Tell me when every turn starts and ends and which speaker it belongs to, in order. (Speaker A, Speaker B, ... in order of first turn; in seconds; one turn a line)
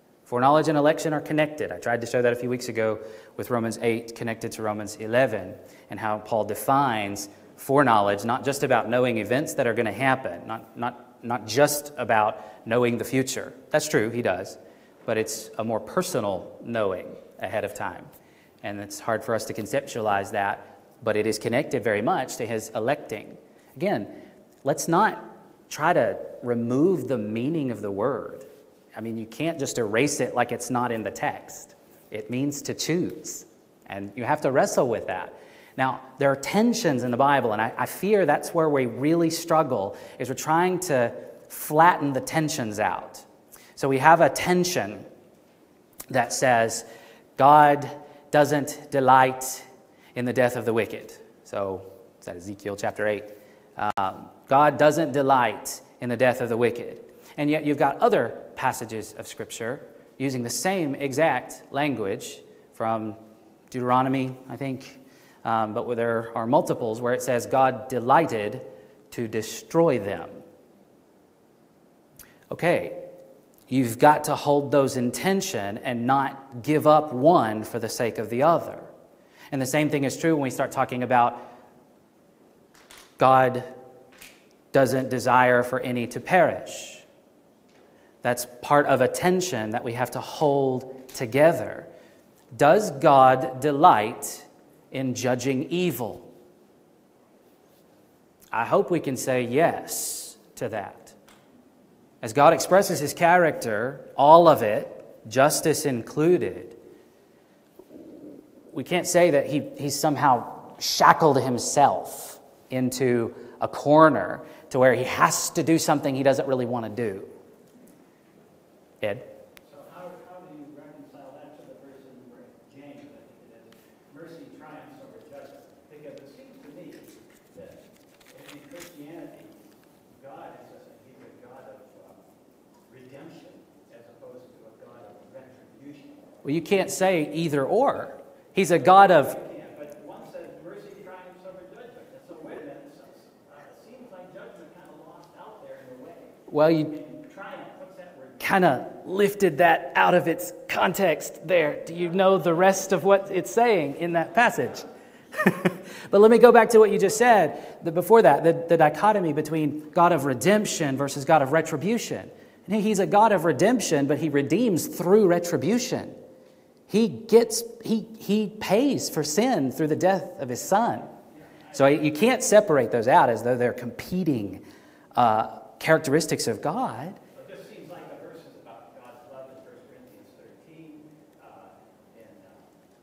Speaker A: 0.3-18.1
Speaker A: 18.6-45.1
Speaker A: 46.1-46.9
Speaker A: 47.4-63.2
Speaker A: 63.7-70.4
Speaker A: 72.5-73.0
Speaker A: 73.7-78.9
Speaker A: 79.5-81.5
Speaker A: 83.2-83.7
Speaker A: 84.7-87.0
Speaker A: 88.2-91.9
Speaker A: 92.5-96.3
Speaker A: 98.5-101.1
Speaker A: 102.2-106.8
Speaker A: 108.7-117.3
Speaker A: 119.0-119.2
Speaker B: 119.6-132.2
Speaker B: 132.8-136.3
Speaker A: 136.4-139.4
Speaker B: 138.8-148.5
Speaker A: 146.5-146.9
Speaker A: 148.4-166.1
Speaker B: 151.8-153.2
Speaker A: 166.9-171.1
Speaker B: 171.3-172.1
Speaker A: 171.7-174.6
Speaker A: 175.1-177.2
Speaker B: 177.3-182.7